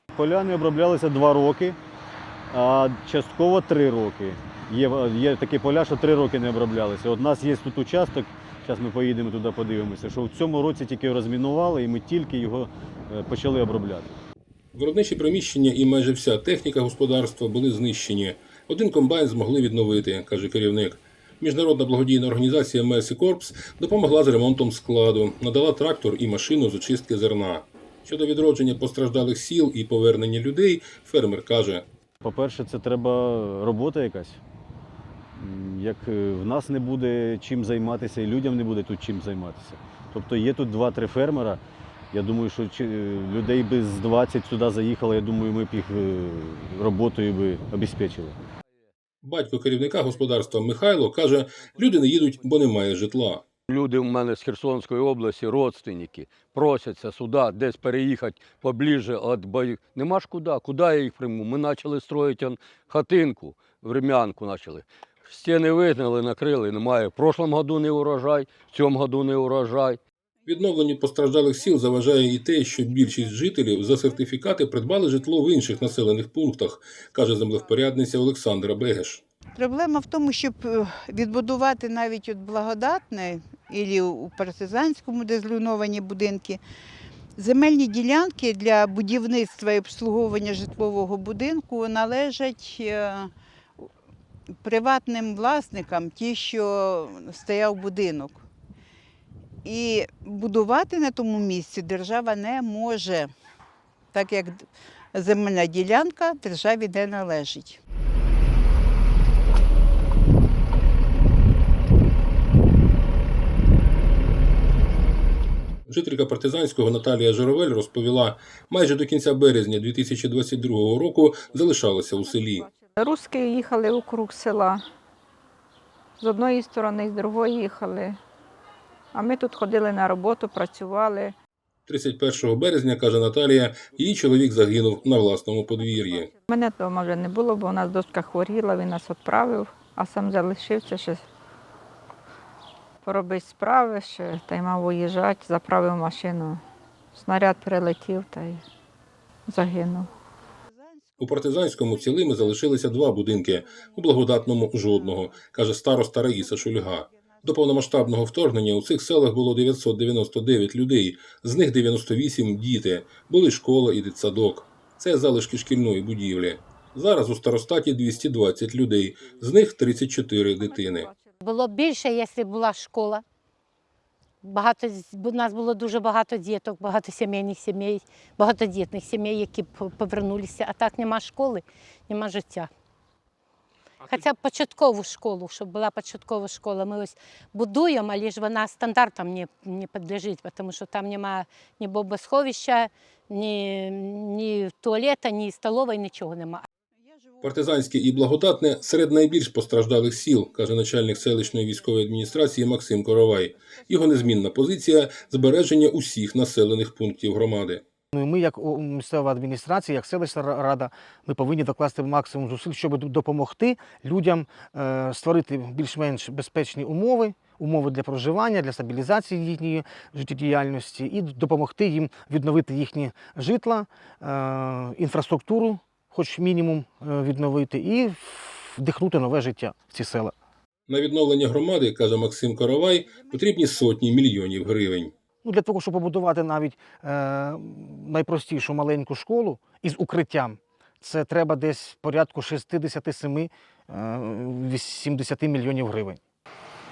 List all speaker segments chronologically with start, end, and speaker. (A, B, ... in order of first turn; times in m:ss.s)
0:00.2-0:01.8 A
0:02.5-0:14.2 A
0:14.8-0:31.8 B
0:32.2-0:34.4 A
0:35.4-0:41.6 A
0:42.1-0:48.4 A
0:49.2-0:53.4 B
0:53.7-1:10.0 C
1:10.5-1:19.2 B
1:19.6-1:26.6 D
1:27.4-1:33.9 D
1:34.6-1:38.4 D
1:39.6-1:43.3 D
1:44.1-1:47.8 D
1:55.9-2:02.7 B
2:02.7-2:04.8 E
2:06.2-2:08.2 E
2:09.1-2:11.3 E
2:11.9-2:16.3 B
2:16.5-2:21.2 E
2:23.0-2:26.6 E
2:27.1-2:28.6 E
2:29.5-2:30.1 E
2:30.7-2:35.2 D
2:31.2-2:51.1 B
2:36.4-2:37.9 D
2:51.4-2:53.2 F
2:54.4-3:02.7 F
3:04.0-3:16.7 F
3:17.1-3:17.8 D
3:17.4-3:27.8 B
3:28.1-3:50.3 G
3:50.9-3:55.1 B
3:55.4-4:06.2 G